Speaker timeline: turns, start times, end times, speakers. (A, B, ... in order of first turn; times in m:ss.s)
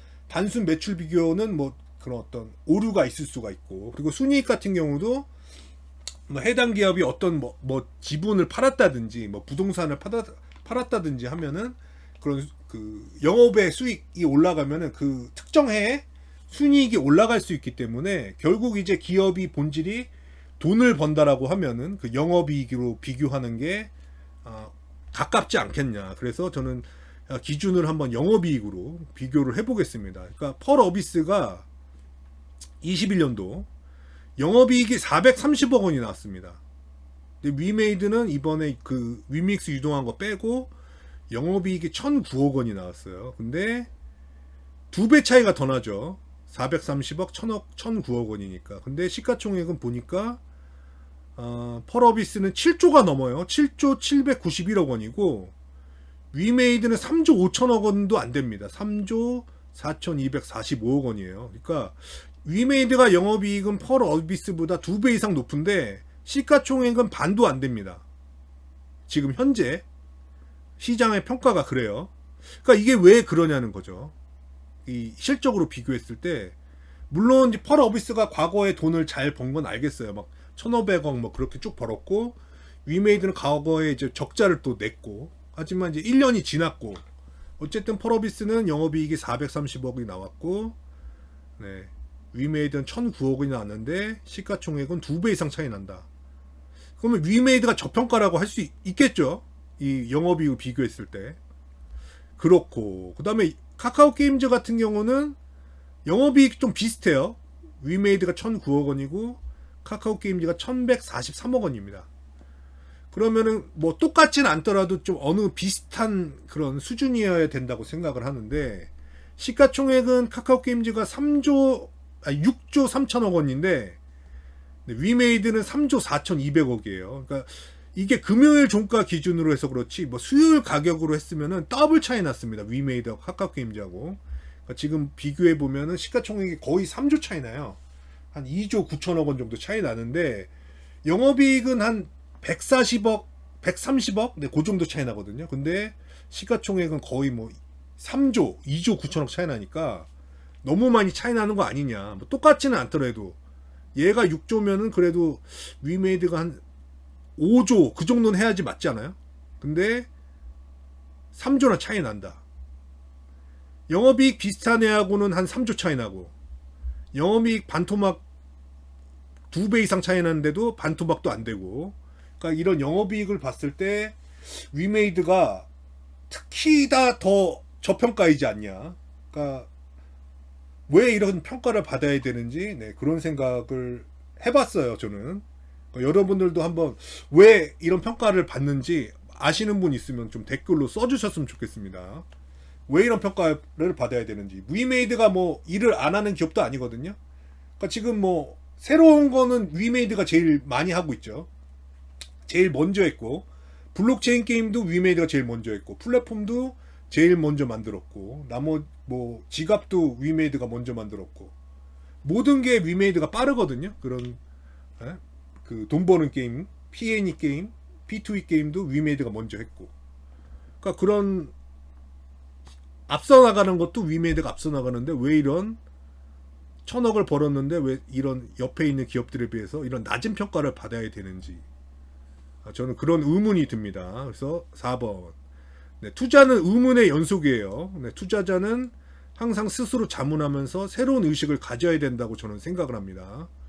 0:00.3-0:05.3 A
0:06.3-0:23.9 A
0:24.4-0:31.6 A
0:32.8-0:33.7 A
0:34.4-0:36.6 A
0:37.4-0:40.7 A
0:41.3-0:43.9 A
0:44.9-0:50.4 A
0:51.4-0:55.5 A
0:56.3-1:08.0 A
1:09.1-1:09.8 A
1:10.8-1:14.1 A
1:14.8-1:16.5 A
1:17.1-1:27.0 A
1:27.6-1:30.8 A
1:31.6-1:36.0 A
1:37.0-1:41.4 A
1:42.4-1:45.4 A
1:46.0-1:52.1 A
1:53.1-2:04.0 A
2:04.8-2:17.8 A
2:18.3-2:20.5 A
2:21.0-2:30.1 A
2:30.6-2:33.4 A
2:34.0-2:36.6 A
2:37.4-2:40.1 A
2:41.3-2:42.4 A
2:43.9-2:46.3 A
2:47.1-2:48.2 A
2:49.5-2:55.7 A
2:56.3-2:59.7 A
3:00.9-3:12.2 A
3:12.9-3:17.2 A
3:17.8-3:21.5 A
3:22.4-3:31.5 A
3:32.2-3:34.4 A
3:35.0-3:39.9 A
3:40.8-3:41.5 A
3:43.1-3:45.8 A
3:46.8-3:51.6 A
3:52.6-3:55.3 A
3:56.0-4:03.5 A